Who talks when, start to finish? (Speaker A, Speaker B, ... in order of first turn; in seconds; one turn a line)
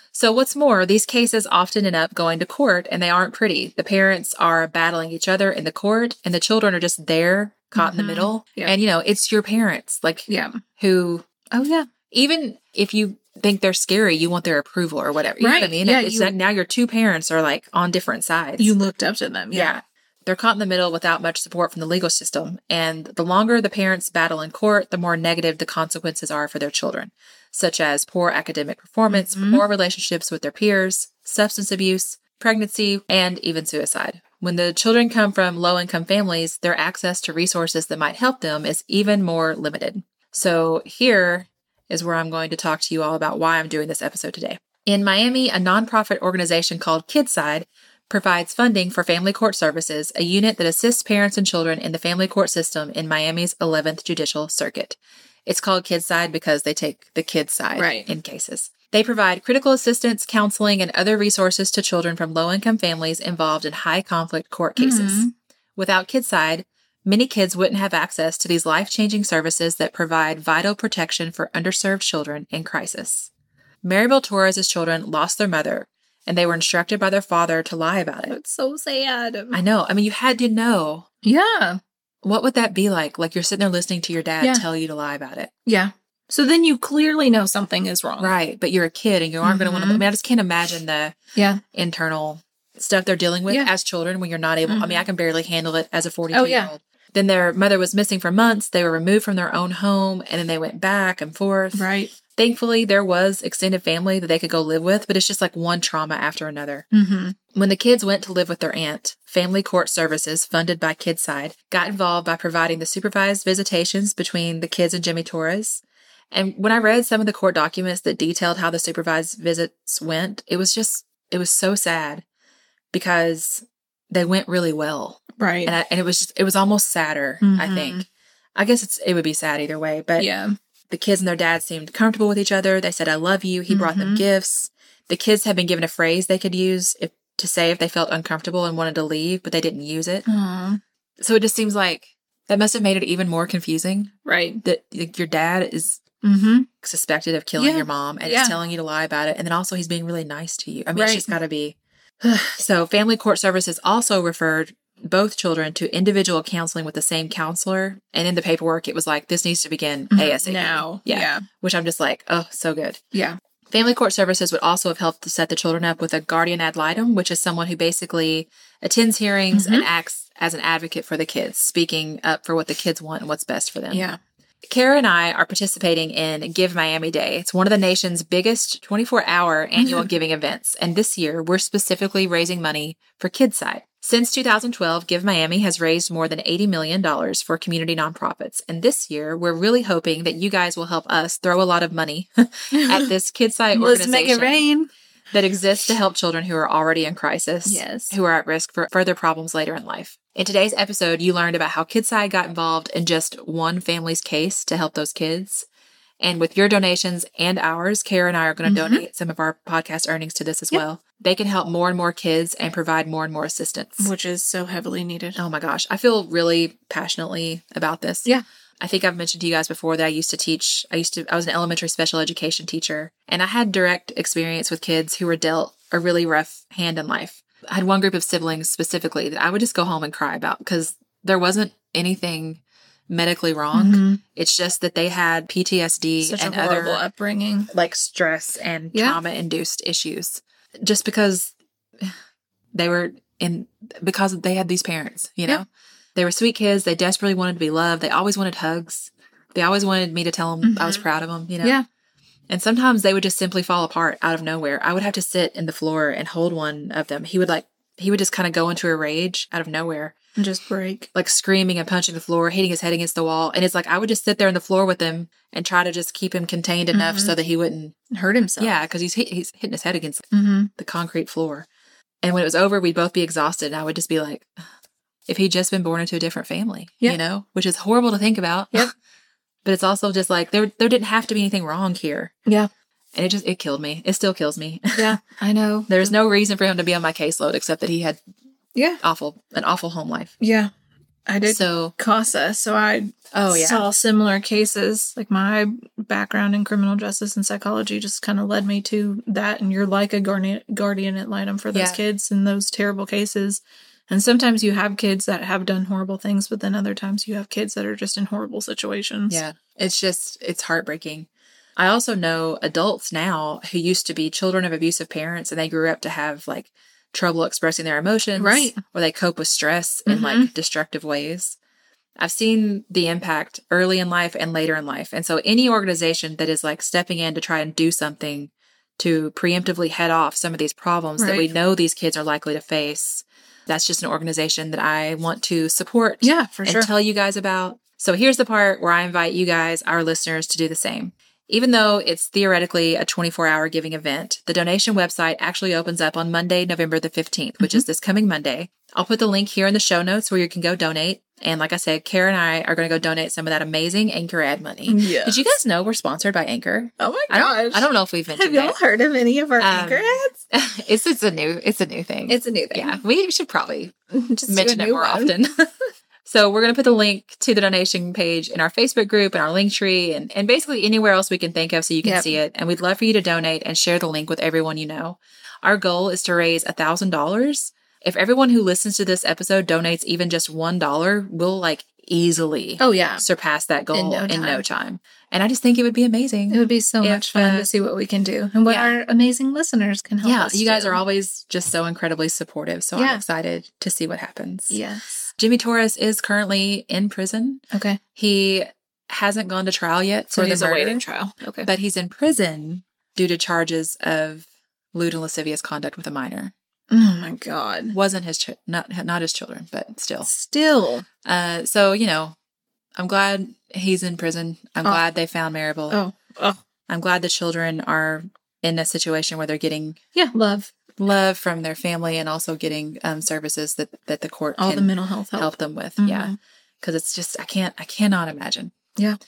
Speaker A: 0.1-11.3
Speaker B: 7.8-8.7
Speaker B: 10.3-10.6
Speaker B: 11.5-11.9
Speaker A: 12.1-18.8
Speaker B: 15.4-16.3
Speaker B: 18.6-19.7
Speaker A: 19.5-73.3
Speaker B: 29.1-29.7
Speaker B: 57.8-58.1
Speaker B: 64.8-65.3
Speaker A: 73.8-78.4
Speaker B: 78.3-79.6
Speaker A: 79.5-81.1
Speaker B: 81.2-81.8
Speaker A: 82.2-85.5
Speaker B: 84.4-84.7
Speaker B: 85.7-88.3
Speaker A: 88.2-91.2
Speaker B: 89.4-90.0
Speaker B: 91.4-91.6
Speaker A: 91.7-106.9
Speaker B: 94.7-95.0
Speaker B: 96.3-96.7
Speaker B: 101.7-102.1
Speaker B: 106.9-107.4
Speaker A: 107.5-122.2
Speaker A: 122.9-130.3
Speaker B: 125.4-125.8
Speaker B: 127.4-128.1
Speaker B: 130.2-130.6
Speaker A: 130.9-140.3
Speaker B: 133.7-134.2
Speaker B: 140.3-140.8
Speaker A: 141.2-144.1
Speaker B: 144.3-144.6
Speaker A: 144.6-146.0
Speaker B: 146.2-146.7
Speaker A: 146.8-163.0
Speaker B: 147.6-148.6
Speaker B: 150.9-151.3
Speaker B: 160.1-161.5
Speaker B: 163.1-163.4
Speaker A: 163.7-174.1
Speaker B: 169.5-169.9
Speaker B: 173.9-174.2
Speaker A: 174.7-194.7
Speaker B: 179.8-180.1
Speaker B: 192.7-193.1
Speaker B: 193.7-194.9
Speaker A: 195.3-205.7
Speaker B: 197.7-198.2
Speaker A: 206.2-214.1
Speaker B: 208.7-209.1
Speaker B: 214.0-215.4
Speaker A: 215.4-237.0
Speaker B: 233.7-234.2
Speaker B: 236.2-237.7
Speaker A: 237.7-242.1
Speaker B: 238.9-239.2
Speaker A: 242.7-251.8
Speaker B: 250.6-251.0
Speaker A: 252.5-260.1
Speaker B: 260.4-261.1
Speaker A: 261.1-267.9
Speaker B: 266.9-267.4
Speaker B: 268.1-268.8
Speaker A: 268.6-271.7
Speaker B: 270.3-270.7
Speaker A: 272.2-274.5
Speaker A: 275.3-278.9
Speaker A: 279.6-282.3
Speaker A: 283.1-285.2
Speaker B: 284.9-286.1
Speaker A: 285.9-288.2
Speaker B: 288.8-289.0
Speaker A: 289.0-290.3
Speaker B: 290.4-290.7
Speaker B: 291.3-309.4
Speaker A: 291.5-291.9
Speaker A: 293.3-293.9
Speaker A: 301.7-302.0
Speaker A: 309.3-321.6
Speaker B: 318.4-318.8
Speaker B: 320.1-320.5
Speaker A: 322.2-358.8
Speaker B: 331.2-331.5
Speaker B: 336.2-336.9
Speaker B: 347.6-347.9
Speaker B: 354.9-355.6
Speaker B: 357.0-360.3
Speaker A: 359.6-363.9
Speaker B: 362.3-363.0
Speaker B: 364.1-365.4
Speaker A: 364.5-365.5
Speaker A: 366.2-387.7
Speaker B: 372.0-372.4
Speaker B: 382.8-383.2
Speaker B: 383.9-384.6
Speaker B: 386.5-391.0
Speaker A: 388.7-388.9
Speaker A: 390.2-394.8
Speaker B: 392.9-393.2
Speaker B: 394.7-395.3
Speaker A: 395.4-397.6
Speaker B: 397.7-398.0
Speaker A: 398.1-401.0
Speaker B: 400.3-401.7
Speaker A: 401.6-406.5
Speaker B: 406.9-407.9
Speaker A: 407.9-410.3
Speaker B: 410.3-411.1
Speaker A: 411.2-412.4
Speaker A: 413.0-416.0
Speaker B: 415.9-416.6
Speaker A: 416.9-420.0
Speaker B: 420.1-420.7
Speaker A: 421.0-428.8
Speaker B: 424.6-426.4